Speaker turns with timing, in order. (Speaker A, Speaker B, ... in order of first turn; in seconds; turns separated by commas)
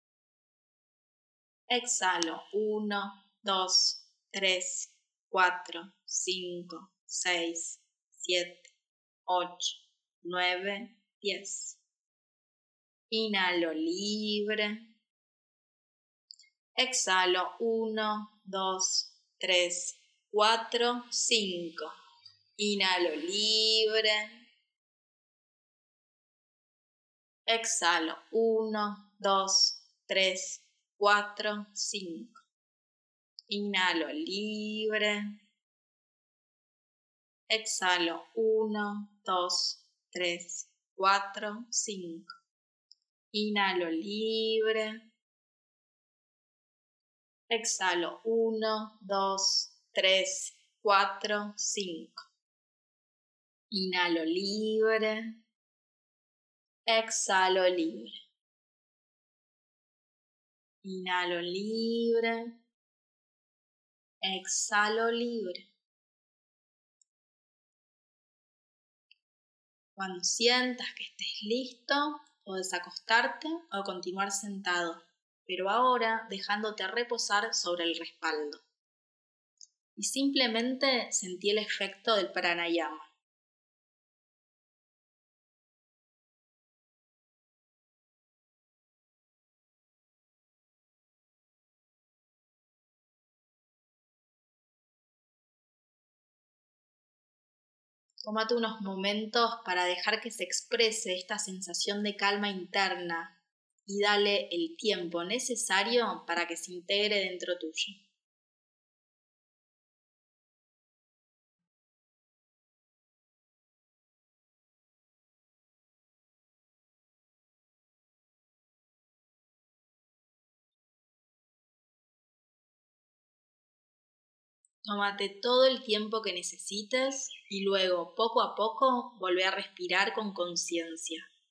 Speaker A: 1.7-8.7, Speaker A: 9.3-11.8, Speaker A: 13.1-14.8, Speaker A: 16.8-21.9, Speaker A: 22.6-24.3, Speaker A: 27.5-32.4, Speaker A: 33.5-35.2, Speaker A: 37.5-42.3, Speaker A: 43.3-45.0, Speaker A: 47.5-52.2, Speaker A: 53.7-55.2, Speaker A: 56.9-58.1, Speaker A: 60.8-62.5, Speaker A: 64.2-65.6, Speaker A: 70.0-78.6, Speaker A: 80.0-83.1, Speaker A: 98.2-103.3, Speaker A: 103.8-107.9, Speaker A: 124.8-131.2